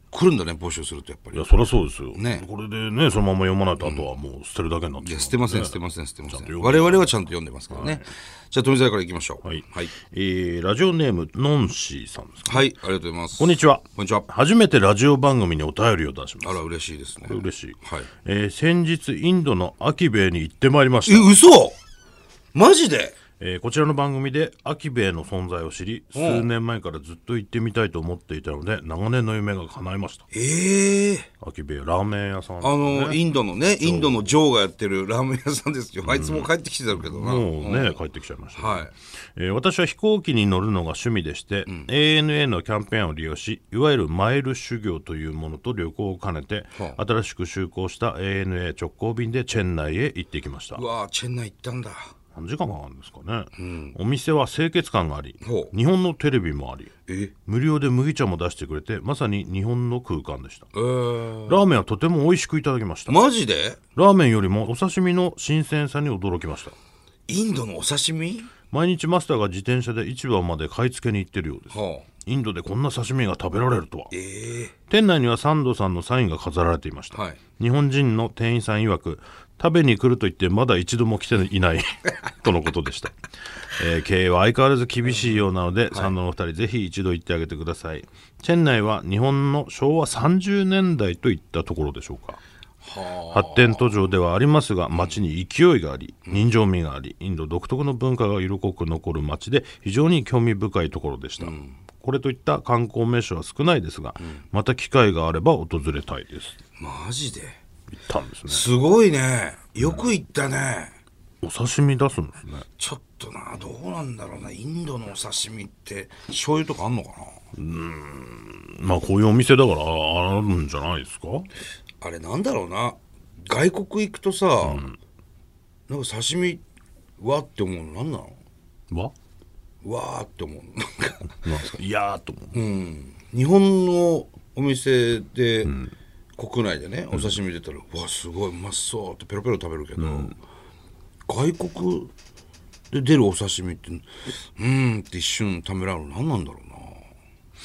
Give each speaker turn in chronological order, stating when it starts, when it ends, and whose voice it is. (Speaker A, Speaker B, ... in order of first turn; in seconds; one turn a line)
Speaker A: 0.1-1.5
Speaker B: 1.3-5.8
Speaker A: 2.1-2.4
Speaker A: 3.8-4.0
Speaker A: 5.0-9.9
Speaker B: 6.3-8.1
Speaker B: 9.4-12.7
Speaker A: 12.5-14.2
Speaker B: 13.4-16.6
Speaker A: 16.4-18.1
Speaker B: 17.2-21.3
Speaker A: 21.1-21.8
Speaker A: 22.5-23.2
Speaker B: 23.4-30.3
Speaker A: 26.1-26.5
Speaker A: 30.3-31.3
Speaker B: 31.4-34.3
Speaker A: 32.6-38.0
Speaker B: 36.0-50.8
Speaker A: 38.5-38.9
Speaker A: 50.7-52.1
Speaker B: 52.3-56.9
Speaker A: 53.5-54.0
Speaker A: 55.4-55.7
Speaker A: 57.1-57.3
Speaker B: 57.5-60.7
Speaker A: 60.7-61.6
Speaker B: 61.4-63.2
Speaker A: 63.1-63.8
Speaker B: 64.0-66.8
Speaker A: 67.3-68.5
Speaker B: 68.7-74.1
Speaker A: 71.7-72.1
Speaker A: 74.1-74.7
Speaker B: 74.9-92.4
Speaker A: 77.1-77.4
Speaker A: 92.8-93.9
Speaker B: 93.2-106.6
Speaker A: 94.9-95.2
Speaker A: 101.4-101.8
Speaker A: 106.8-107.6
Speaker B: 107.9-108.7
Speaker A: 108.5-110.9
Speaker B: 109.8-110.0
Speaker B: 111.4-112.6
Speaker A: 112.8-117.4
Speaker B: 117.5-121.5
Speaker A: 122.0-124.8
Speaker B: 124.6-125.0
Speaker A: 125.9-126.6
Speaker A: 127.2-128.4
Speaker A: 129.8-131.3
Speaker B: 131.4-132.6
Speaker A: 132.5-135.7
Speaker B: 135.6-135.9
Speaker A: 136.4-140.4
Speaker B: 140.0-140.3
Speaker A: 141.3-142.1
Speaker A: 142.9-147.1